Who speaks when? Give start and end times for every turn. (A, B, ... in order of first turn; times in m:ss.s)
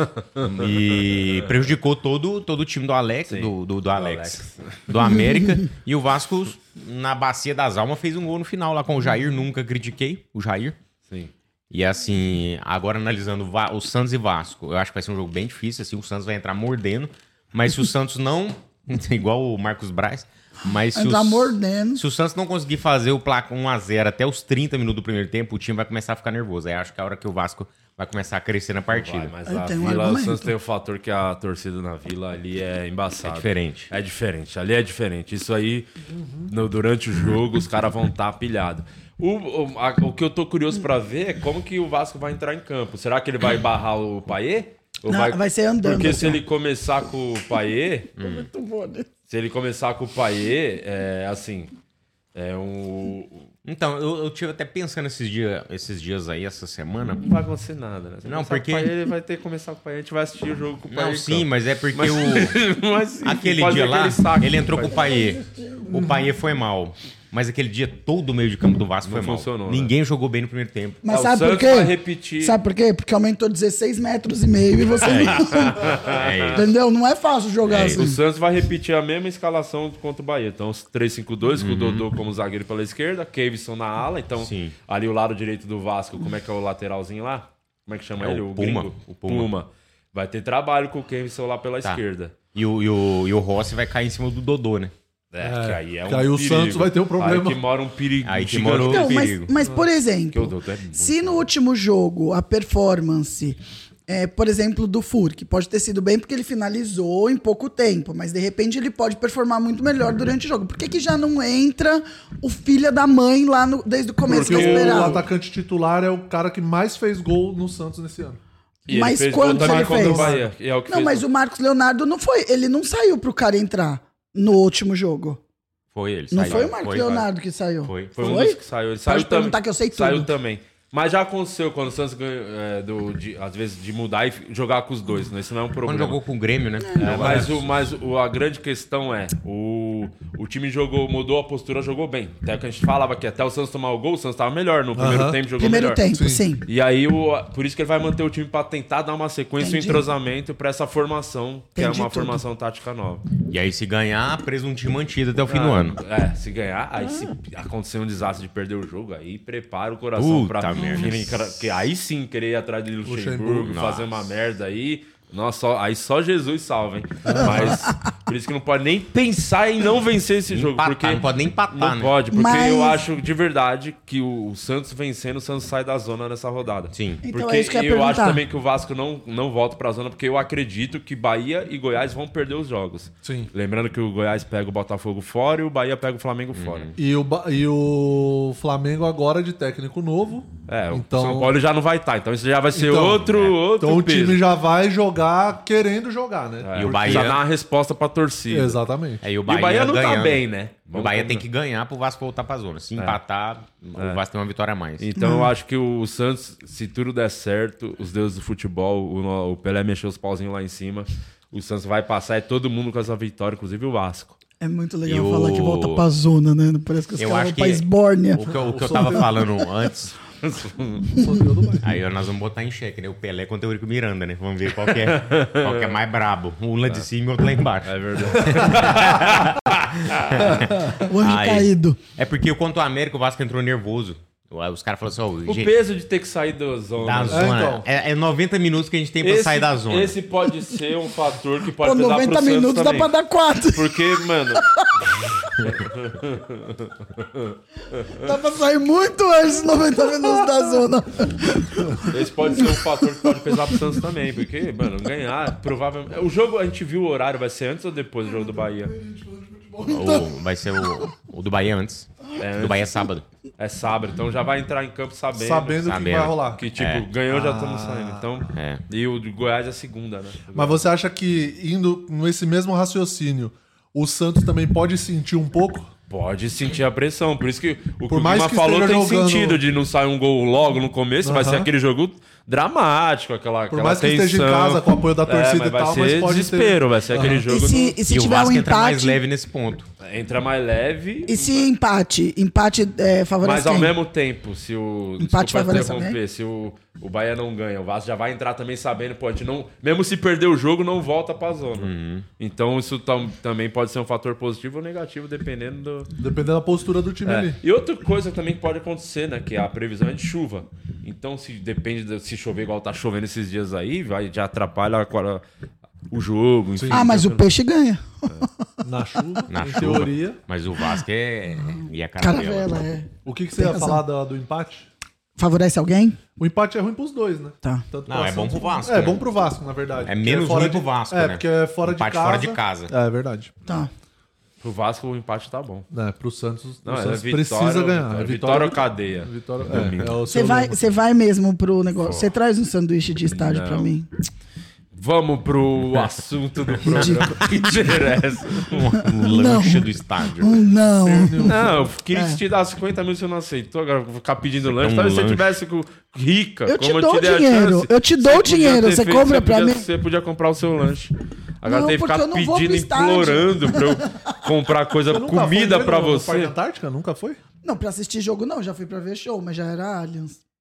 0:00.4-0:01.5 A
0:00.4-0:10.8 B
0:03.3-0:04.8 A
0:11.7-0:29.3 B
0:20.9-0:22.0 C
0:28.9-0:35.9 A
0:29.4-0:30.5 C
0:33.2-0:33.9 B
0:36.1-0:36.5 D
0:36.5-0:48.1 A
0:45.1-0:46.4 C
0:48.2-0:48.5 B
0:48.2-0:49.1 C
0:49.3-0:51.7 A
0:52.3-0:53.5 A
0:53.6-0:57.2 B
0:57.2-1:05.0 A
0:58.2-0:58.9 B
1:00.9-1:02.6 B
1:03.2-1:11.0 B
1:04.8-1:06.0 C
1:09.0-1:09.9 A
1:11.0-1:15.8 C
1:11.1-1:12.6 A
1:15.0-1:16.7 B
1:15.4-1:16.6 A
1:16.5-1:18.2 C
1:17.6-1:18.0 B
1:17.8-1:32.3 A
1:21.5-1:22.0 B
1:24.4-1:24.7 B
1:28.2-1:29.5 B
1:32.5-1:34.9 B
1:35.3-1:39.3 A
1:35.4-1:37.6 D
1:38.2-1:39.5 B
1:38.8-1:55.2 C
1:40.3-1:41.4 A
1:54.3-1:58.4 D
1:54.3-1:55.2 A
1:58.9-2:00.3 C
1:58.9-2:01.2 A
1:59.5-2:00.5 D
2:00.9-2:05.4 C
2:05.9-2:07.3 B
2:06.3-2:10.3 C
2:06.4-2:06.7 A
2:07.8-2:08.2 B
2:08.2-2:16.2 A
2:15.8-2:17.6 B
2:17.0-2:26.0 A
2:17.1-2:17.5 D
2:24.9-2:25.4 D
2:25.6-2:26.6 C
2:26.1-2:26.4 D
2:26.6-2:33.2 A
2:29.6-2:30.0 C
2:31.8-2:32.4 C
2:33.4-2:36.0 B
2:35.4-3:06.9 A
2:40.2-2:41.3 B
2:43.0-2:43.8 D
2:43.7-2:44.1 B
2:47.2-2:47.8 D
2:50.5-2:52.1 B
2:52.3-2:53.0 C
2:56.9-2:57.2 B
2:57.2-2:58.4 C
3:03.2-3:03.5 D
3:06.5-3:07.0 B
3:07.0-3:11.5 D
3:10.7-3:14.4 A
3:12.7-3:17.4 D
3:16.6-3:18.8 A
3:16.8-3:17.4 B
3:18.5-3:19.2 D
3:19.2-3:25.1 B
3:19.4-3:21.4 A
3:24.0-3:24.2 A
3:25.0-3:34.4 A
3:25.2-3:25.5 C
3:34.6-3:39.2 C
3:35.1-3:36.0 B
3:37.2-3:40.2 B
3:38.6-3:39.2 D
3:40.4-3:41.1 A
3:41.2-3:41.9 D
3:41.8-3:55.7 B
3:44.8-3:46.0 A
3:47.8-3:50.6 A
3:50.9-3:52.0 C
3:55.4-3:57.6 A
3:57.0-4:00.2 B
3:57.3-3:57.8 D
3:59.2-4:03.1 A
4:01.8-4:04.0 C
4:03.7-4:04.6 A
4:04.6-4:04.9 C
4:05.6-4:08.2 A
4:08.1-4:12.1 C
4:12.1-4:18.9 A
4:19.0-4:20.1 D
4:19.8-4:20.2 C
4:19.8-4:23.2 B
4:22.4-4:25.9 A
4:25.3-4:26.6 D
4:25.8-4:27.1 B
4:26.4-4:30.8 A
4:27.3-4:28.2 D
4:28.5-4:28.8 B
4:30.5-4:35.9 D
4:36.1-4:48.0 A
4:38.1-4:39.6 D
4:41.2-4:41.7 D
4:43.7-4:47.4 D
4:47.4-4:49.2 C
4:48.1-4:49.9 B
4:50.0-4:51.6 A
4:51.3-4:53.9 C
4:53.4-5:06.1 A
4:55.2-4:56.2 C
5:01.8-5:02.2 B
5:06.2-5:07.6 D
5:07.2-5:15.4 A
5:16.1-5:17.5 A
5:16.8-5:17.1 D
5:16.9-5:18.5 C
5:18.8-5:20.4 D
5:19.5-5:22.8 B
5:21.6-5:24.0 C
5:23.2-5:24.9 D
5:25.4-5:26.2 C
5:26.4-5:33.5 D
5:28.1-5:29.2 B
5:30.0-5:32.9 B
5:34.6-5:35.8 A
5:35.9-5:40.8 D
5:36.8-5:40.2 A
5:40.3-5:44.1 C
5:43.3-5:43.9 A
5:44.9-5:48.8 A
5:46.8-5:47.8 C
5:48.6-5:50.6 B
5:49.0-5:52.4 C
5:51.0-5:51.9 D
5:51.4-6:06.5 A
5:54.7-5:55.5 B
5:56.7-5:59.8 C
6:01.6-6:03.8 C
6:05.1-6:07.4 D
6:07.6-6:10.4 C